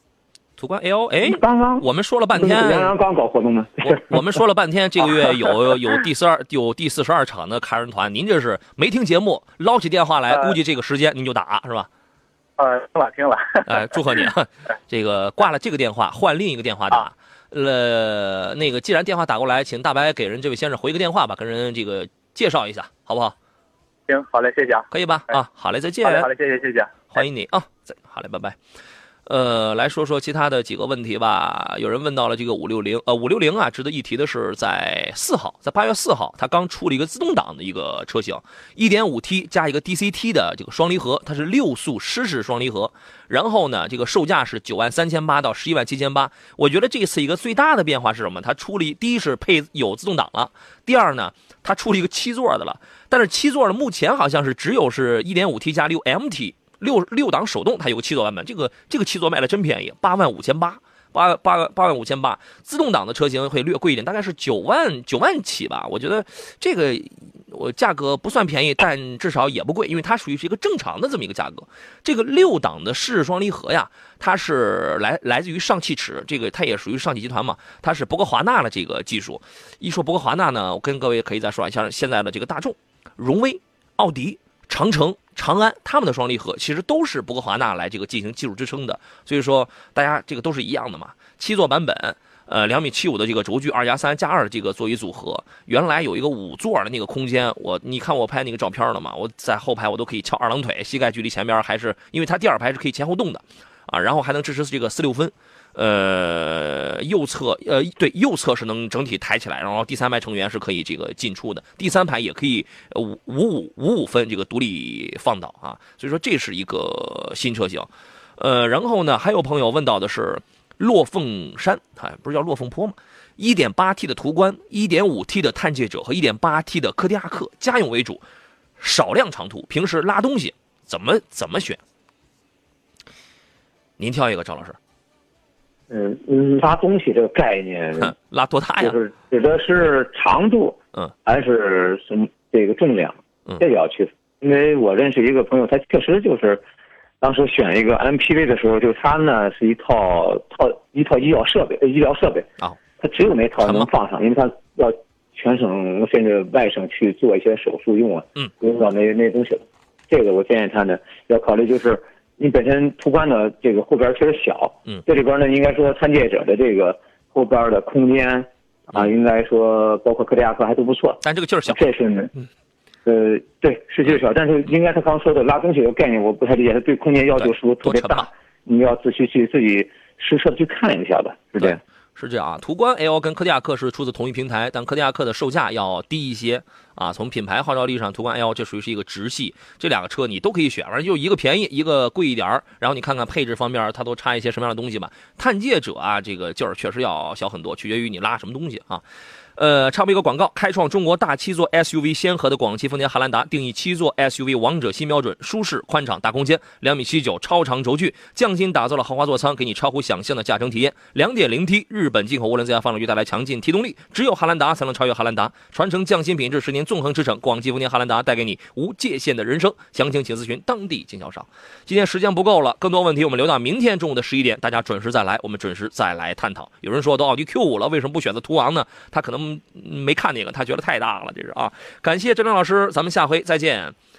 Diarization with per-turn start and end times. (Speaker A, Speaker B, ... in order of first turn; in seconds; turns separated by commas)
Speaker A: 0.6-2.9, Speaker B: 1.2-4.4, Speaker A: 3.8-11.9, Speaker C: 10.3-10.6, Speaker C: 12.6-14.0, Speaker A: 13.7-23.3, Speaker C: 24.1-24.9, Speaker A: 24.9-26.3, Speaker C: 26.0-27.1, Speaker A: 27.1-28.6, Speaker A: 29.2-128.2, Speaker A: 128.8-131.8, Speaker A: 134.0-134.8, Speaker B: 135.9-138.1, Speaker A: 138.0-138.9, Speaker B: 138.8-146.6, Speaker B: 147.2-172.3, Speaker A: 153.6-153.9, Speaker A: 171.2-171.9, Speaker B: 173.1-181.8, Speaker A: 177.4-178.3, Speaker A: 181.6-199.0, Speaker A: 199.6-233.9